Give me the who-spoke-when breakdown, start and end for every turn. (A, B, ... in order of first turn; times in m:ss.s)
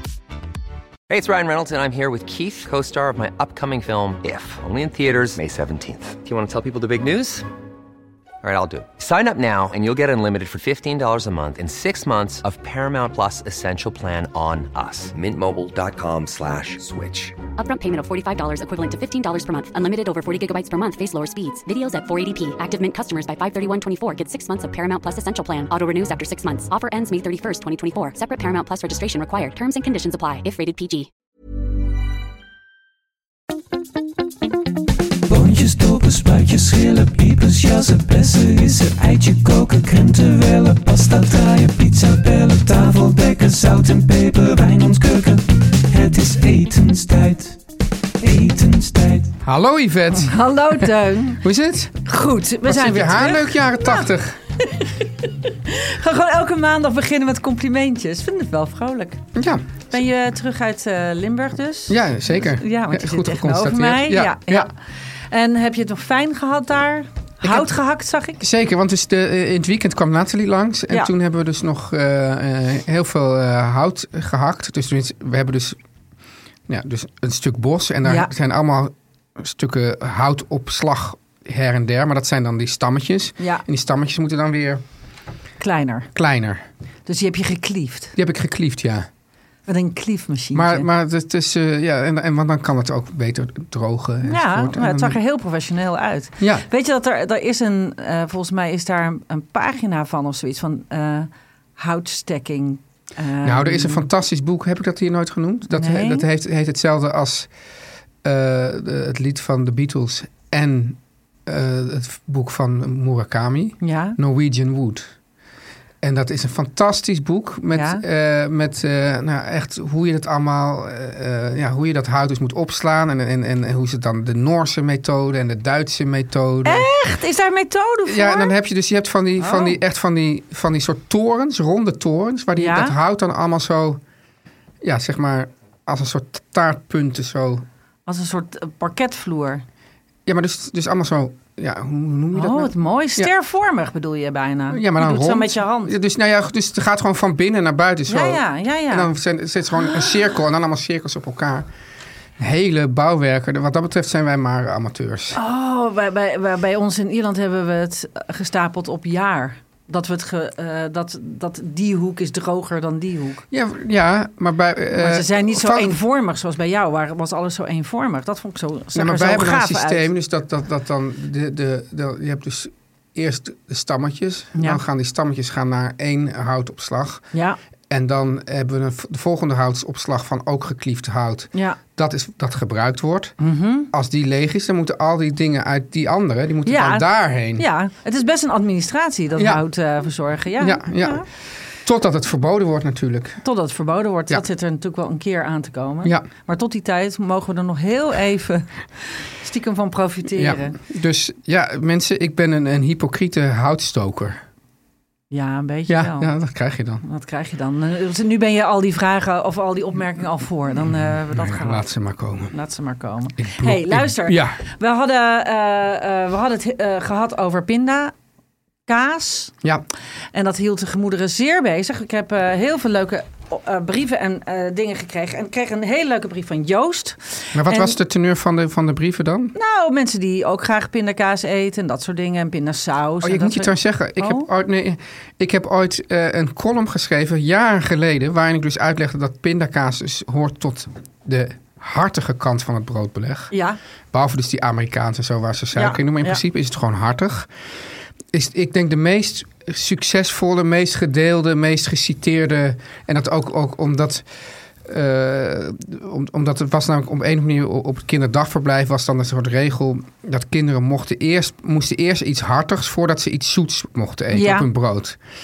0:01.1-0:07.5 A
0:08.4-0:17.4 A
0:17.6-0:31.1 B
0:35.3-0:47.6 C
0:48.2-0:49.3 C
0:49.4-0:52.0 D
0:50.1-0:51.4 E
0:52.0-0:54.0 E
0:52.6-0:54.4 D
0:54.6-0:59.2 E
0:59.3-0:59.7 D
0:59.9-1:04.8 E
1:01.9-1:04.7 D
1:05.3-1:08.4 E
1:07.4-1:07.7 D
1:08.4-1:15.8 D
1:16.7-1:24.8 D
1:18.0-1:18.3 E
1:23.4-1:23.6 E
1:25.6-1:26.1 E
1:26.1-1:26.6 D
1:27.0-1:28.1 E
1:28.1-1:29.1 D
1:29.7-1:30.9 E
1:30.5-1:35.2 D
1:34.2-1:44.1 E
1:36.4-1:36.6 D
1:43.4-1:47.5 D
1:45.7-1:46.2 E
1:48.2-1:55.1 D
1:53.8-1:54.2 E
1:56.0-2:06.9 D
1:57.7-1:58.0 E
2:06.6-2:08.5 E
2:08.0-2:14.0 D
2:09.4-2:09.8 E
2:12.6-2:13.0 E
2:14.8-2:17.6 D
2:18.1-2:19.6 E
2:20.2-2:23.3 D
2:22.3-2:25.9 E
2:24.7-2:31.7 D
2:28.1-2:29.1 E
2:29.8-2:30.2 E
2:32.4-2:35.4 D
2:35.3-2:43.4 E
2:43.5-2:46.0 D
2:45.0-2:50.1 E
2:48.9-2:57.2 D
2:54.5-2:54.8 E
2:57.3-2:57.6 E
2:57.9-3:03.4 D
3:01.5-3:01.8 E
3:03.4-3:03.9 E
3:03.9-3:07.6 D
3:06.6-3:11.2 E
3:09.4-3:09.6 D
3:10.6-3:11.2 D
3:11.8-3:13.4 D
3:13.4-3:20.8 E
3:20.3-3:24.4 D
3:25.3-3:26.3 E
3:25.9-3:27.0 D
3:27.0-3:31.9 E
3:31.3-3:32.5 D
3:32.5-3:38.1 E
3:33.4-3:34.6 D
3:38.9-3:39.5 E
3:40.3-3:48.0 E
3:47.5-3:49.5 D
3:49.5-3:54.4 E
3:53.2-4:03.5 D
4:03.5-4:03.8 E
4:04.1-4:07.5 D
4:05.7-4:06.4 E
4:08.3-4:14.3 D
4:14.8-4:25.2 D
4:24.3-4:24.7 E